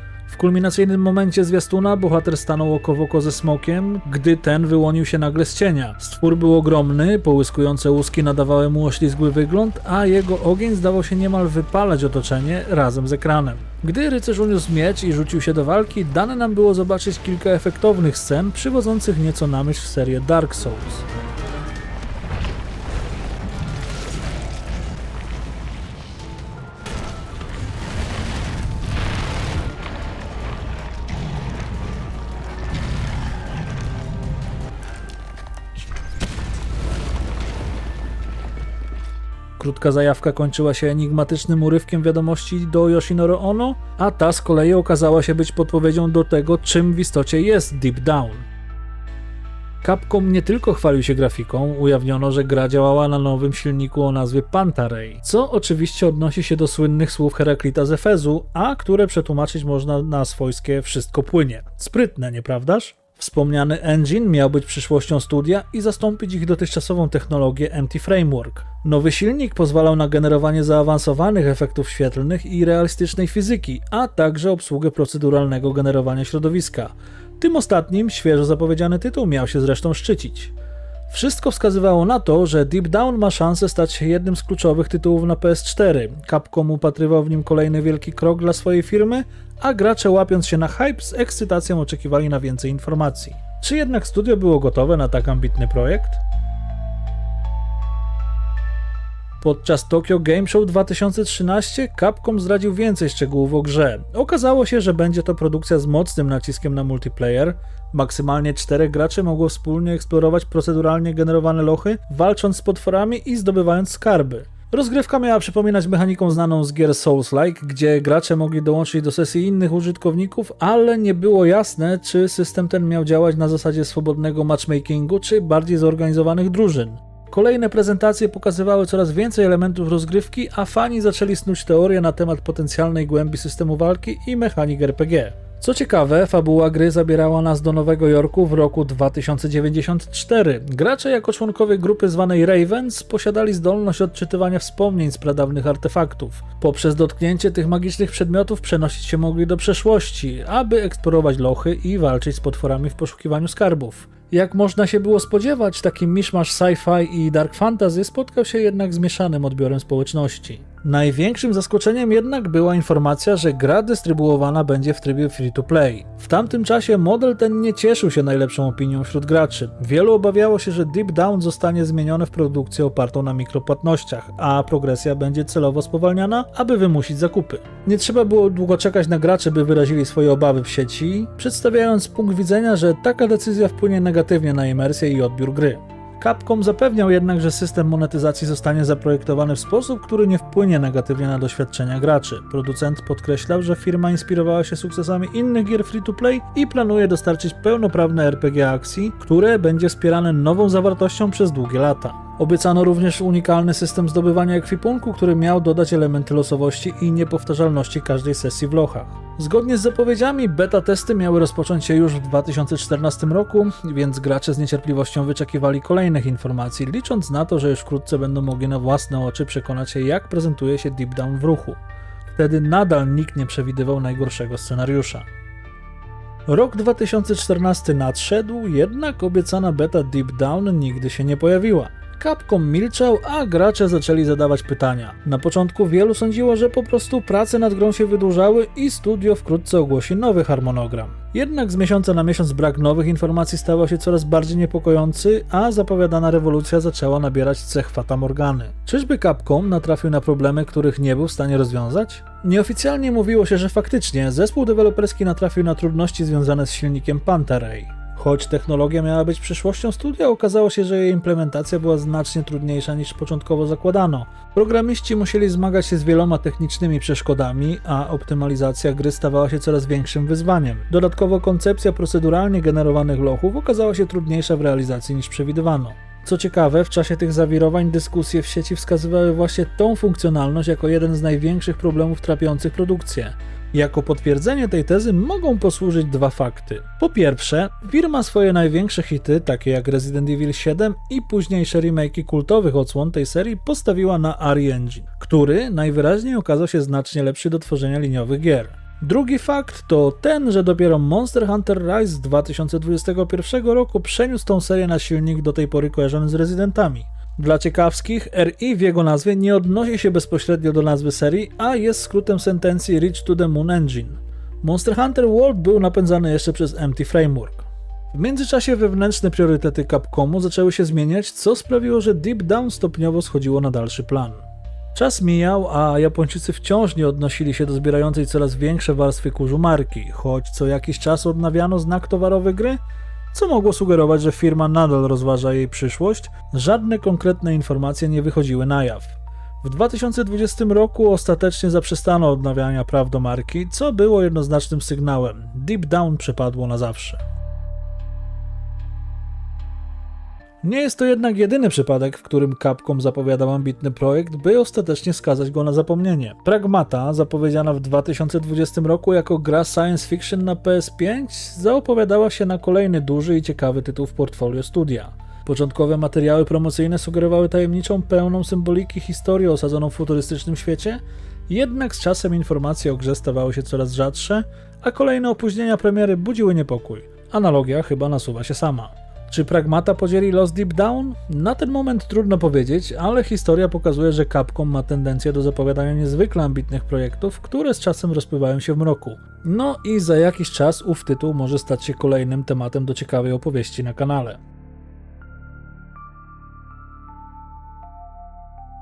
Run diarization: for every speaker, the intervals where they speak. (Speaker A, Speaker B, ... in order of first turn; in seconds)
Speaker A: 0.3-21.1, 39.6-48.5, 49.8-80.5, 81.1-96.2, 99.4-221.8, 222.3-225.3, 226.5-332.8, 333.3-347.2, 350.6-394.4